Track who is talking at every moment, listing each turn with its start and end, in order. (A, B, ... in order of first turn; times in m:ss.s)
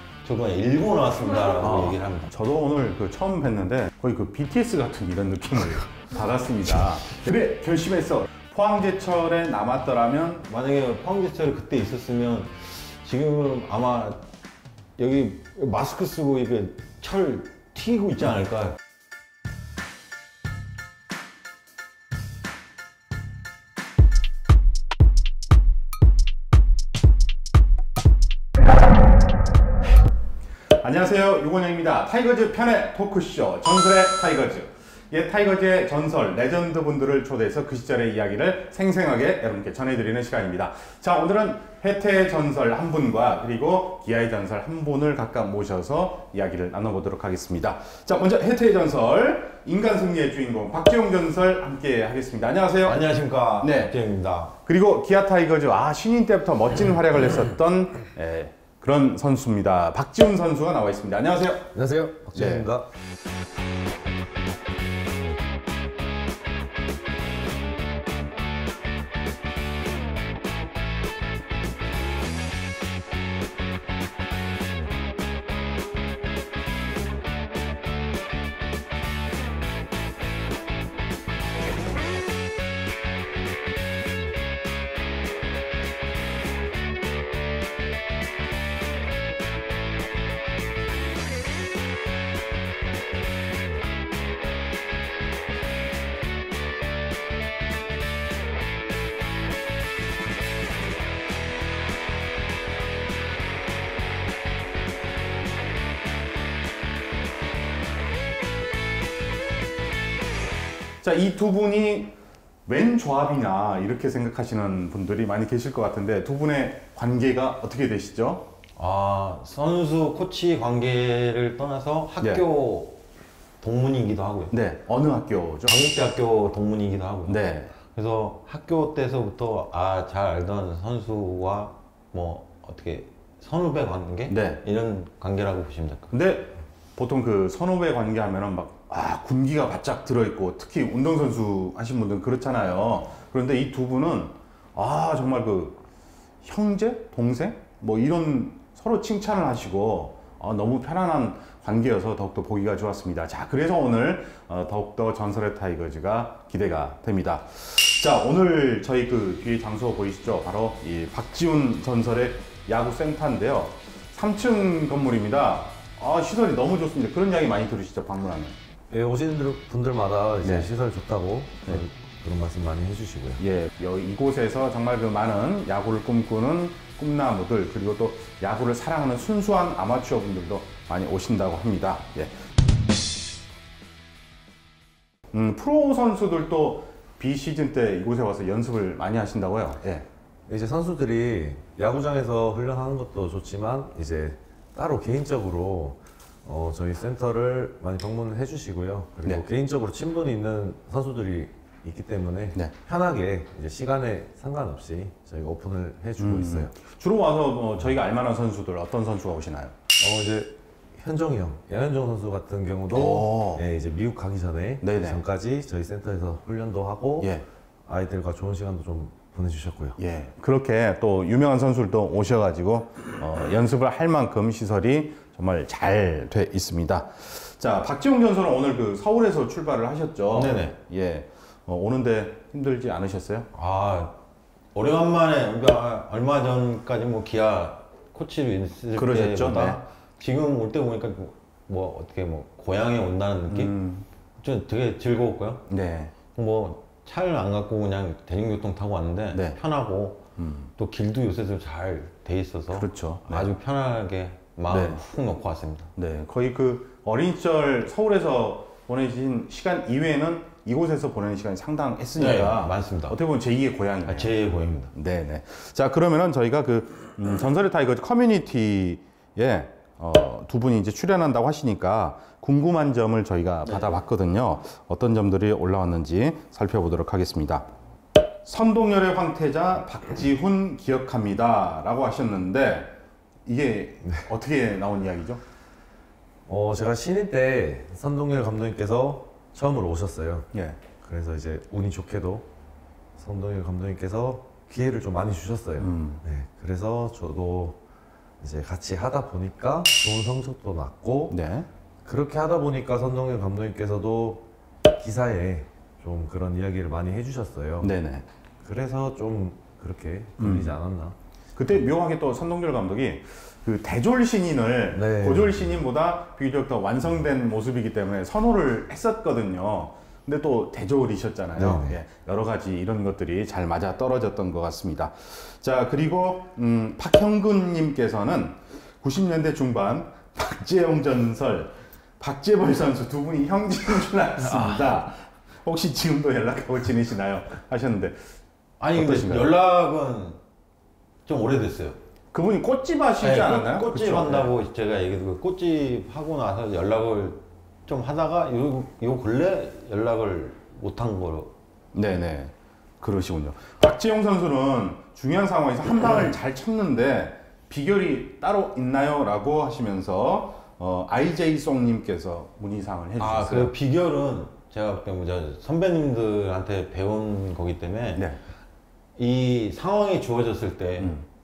0:00.2-0:02.3 A
0:01.6-0:10.5 B
0:10.5-0:14.2 A
0:15.0-0:18.8 A
0:30.8-0:53.1 B
0:52.8-0:54.6 A
0:53.6-0:54.0 B
0:54.6-1:01.7 B
1:01.7-1:02.9 C
1:02.3-1:02.7 B
1:51.0-1:52.1 B
1:52.7-1:58.5 B
1:58.8-2:03.0 A
2:03.6-2:04.5 A
2:04.5-2:05.8 B
2:05.7-2:16.1 A
2:07.3-2:07.7 B
2:14.3-2:14.6 B
2:16.1-2:25.8 B
2:26.4-2:48.6 B
2:48.9-2:53.4 C
2:50.4-2:50.7 B
2:53.4-3:02.3 B
3:05.3-3:10.1 B
3:10.5-3:26.7 C
3:26.2-3:29.8 B
3:30.0-3:37.3 C
3:32.9-3:33.6 B
3:34.8-3:35.2 B
3:37.2-3:37.4 B
3:37.9-3:40.0 C
3:40.0-3:53.5 B
3:50.3-3:50.8 A
3:53.5-3:54.2 A
3:54.7-4:03.8 A
3:59.0-3:59.8 B
4:03.5-4:04.1 B
4:04.4-4:05.7 A
4:05.7-4:06.2 B
4:06.3-4:15.9 A
4:09.3-4:09.6 B
4:10.4-4:10.7 B
4:12.7-4:13.5 B
4:14.7-4:15.0 B
4:16.0-4:24.4 B
4:22.2-4:23.2 A
4:24.0-4:24.9 A
4:24.9-4:37.7 B
4:38.4-4:43.0 B
4:43.5-4:45.4 B
4:46.5-4:52.5 C
4:50.5-4:50.8 B
4:53.2-4:57.8 C
4:55.8-4:56.2 B
4:58.4-5:01.4 C
5:01.3-5:01.7 B
5:02.0-5:07.9 C
5:07.8-5:08.3 B
5:08.6-5:11.2 C
5:10.4-5:10.8 B
5:11.6-5:38.2 B
5:14.9-5:15.7 C
5:21.6-5:22.0 C
5:34.5-5:34.8 A
5:38.8-5:40.4 A
5:38.9-5:39.5 B
5:41.3-5:42.0 A
5:42.3-5:44.5 B
5:43.2-5:51.5 A
5:51.9-6:03.7 B
6:03.2-6:08.3 A
6:09.2-6:11.2 A